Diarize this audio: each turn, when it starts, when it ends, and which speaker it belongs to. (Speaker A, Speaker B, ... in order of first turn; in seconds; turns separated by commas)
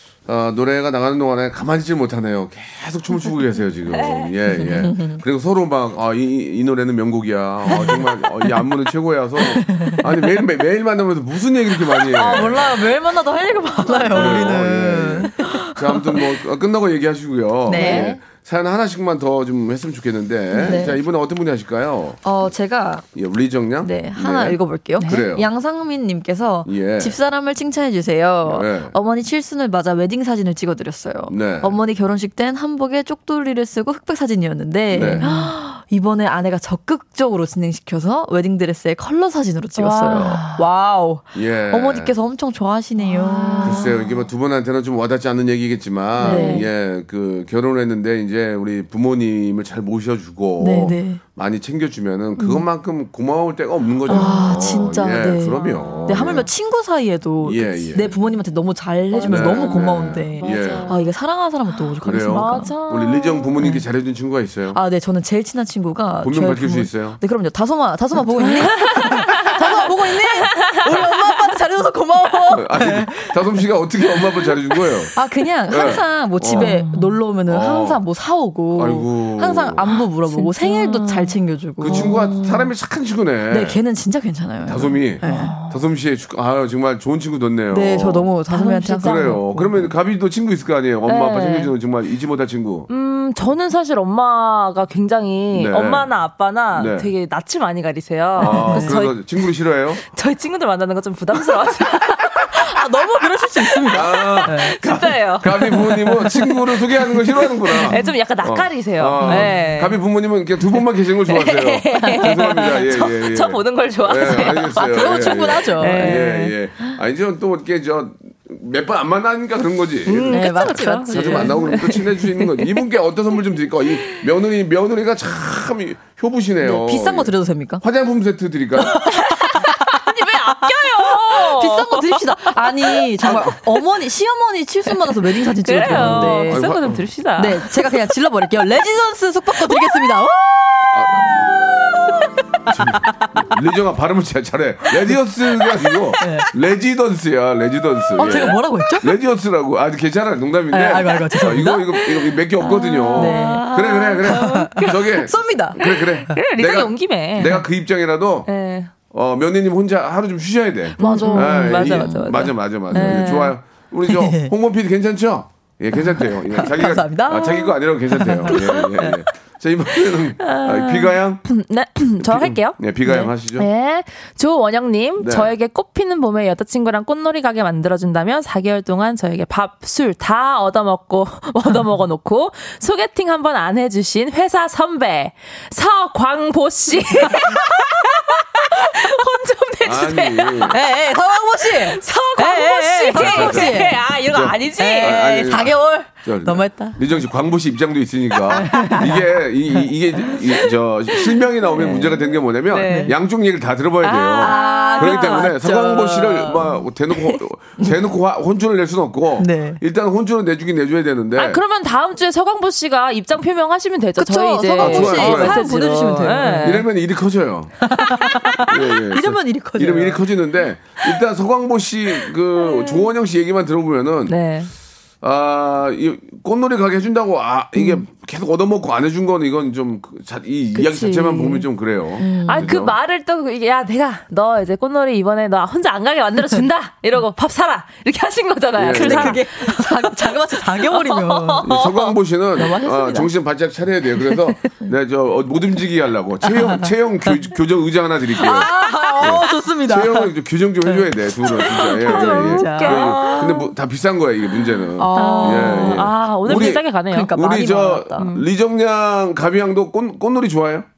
Speaker A: 0.3-12.8, Speaker B: 3.9-4.8, Speaker C: 4.6-5.2, Speaker C: 7.7-8.1, Speaker C: 9.6-10.0, Speaker C: 12.1-16.1, Speaker B: 13.9-14.5, Speaker A: 14.1-22.2, Speaker C: 17.7-18.1, Speaker B: 17.7-18.2, Speaker C: 20.5-20.9, Speaker C: 22.2-23.1, Speaker A: 23.1-25.5, Speaker C: 23.8-43.9, Speaker B: 25.0-25.3, Speaker A: 26.7-27.2, Speaker A: 28.4-28.9, Speaker A: 31.3-31.8, Speaker A: 34.9-35.3, Speaker B: 35.2-35.5, Speaker B: 39.8-40.6, Speaker A: 41.3-42.1, Speaker B: 43.0-44.1, Speaker A: 43.6-56.5, Speaker C: 46.2-46.7, Speaker B: 46.2-46.7, Speaker C: 50.6-51.2, Speaker B: 54.1-54.6, Speaker C: 54.1-62.7, Speaker B: 55.5-56.4, Speaker A: 57.4-58.1, Speaker B: 59.1-61.1, Speaker A: 59.2-60.9, Speaker A: 62.0-64.8, Speaker B: 62.3-63.7, Speaker C: 64.7-73.6, Speaker A: 66.2-67.2, Speaker B: 68.4-71.3, Speaker A: 72.5-75.1, Speaker C: 75.1-82.3, Speaker A: 75.7-76.8, Speaker B: 76.5-77.2, Speaker A: 77.5-78.0, Speaker A: 78.7-79.9, Speaker B: 79.9-82.7, Speaker A: 81.8-83.8, Speaker C: 83.5-85.5, Speaker A: 84.7-88.3, Speaker B: 85.2-85.8, Speaker C: 87.7-89.9, Speaker B: 88.5-89.4, Speaker A: 89.0-92.9, Speaker B: 91.1-91.7, Speaker B: 92.9-106.6, Speaker A: 95.5-96.1, Speaker A: 96.7-97.1, Speaker C: 98.4-99.0, Speaker A: 98.4-100.0, Speaker C: 102.4-104.8, Speaker A: 103.9-129.2, Speaker B: 107.8-110.0, Speaker C: 107.9-108.1, Speaker C: 109.2-109.7, Speaker B: 111.3-115.2, Speaker C: 112.0-112.7, Speaker C: 114.4-116.3, Speaker B: 115.8-116.5, Speaker B: 120.1-122.8, Speaker C: 120.3-122.0, Speaker C: 126.6-127.8, Speaker B: 128.9-133.6, Speaker C: 129.1-136.7, Speaker B: 135.0-137.9, Speaker A: 135.9-137.1, Speaker C: 137.4-141.3, Speaker A: 140.9-141.5, Speaker A: 142.7-158.5, Speaker C: 146.2-146.5, Speaker C: 148.2-149.1, Speaker C: 150.7-152.1, Speaker B: 152.6-155.2, Speaker C: 153.2-156.4, Speaker B: 155.8-157.6, Speaker B: 158.5-158.9, Speaker A: 159.1-171.4, Speaker B: 161.0-163.6, Speaker C: 161.0-163.4, Speaker C: 164.1-164.5, Speaker C: 166.0-169.1, Speaker B: 168.5-169.1, Speaker B: 170.4-191.0, Speaker A: 172.2-173.7, Speaker A: 175.2-175.5, Speaker A: 189.8-190.8, Speaker C: 190.7-194.0, Speaker B: 191.6-195.6, Speaker A: 193.1-211.6, Speaker C: 194.8-197.0, Speaker C: 198.6-199.1, Speaker B: 198.7-199.1, Speaker B: 200.3-203.2, Speaker C: 202.8-203.1, Speaker B: 204.0-207.4, Speaker C: 204.4-205.6, Speaker C: 209.4-209.8, Speaker B: 211.3-216.9, Speaker C: 214.2-216.8, Speaker A: 214.8-215.6, Speaker A: 216.5-217.7, Speaker C: 217.8-220.2, Speaker A: 218.6-224.4, Speaker B: 222.6-223.1, Speaker B: 224.3-224.7, Speaker A: 225.2-232.9, Speaker B: 230.8-231.7, Speaker C: 232.2-232.7, Speaker B: 232.4-242.1, Speaker A: 238.8-239.4, Speaker C: 238.8-241.8, Speaker A: 241.6-248.7, Speaker C: 242.6-243.3, Speaker C: 248.4-250.3, Speaker B: 248.6-249.4, Speaker A: 249.2-260.9, Speaker C: 251.4-253.4, Speaker B: 252.0-253.7, Speaker C: 255.0-258.3, Speaker B: 255.2-257.3, Speaker B: 258.2-258.4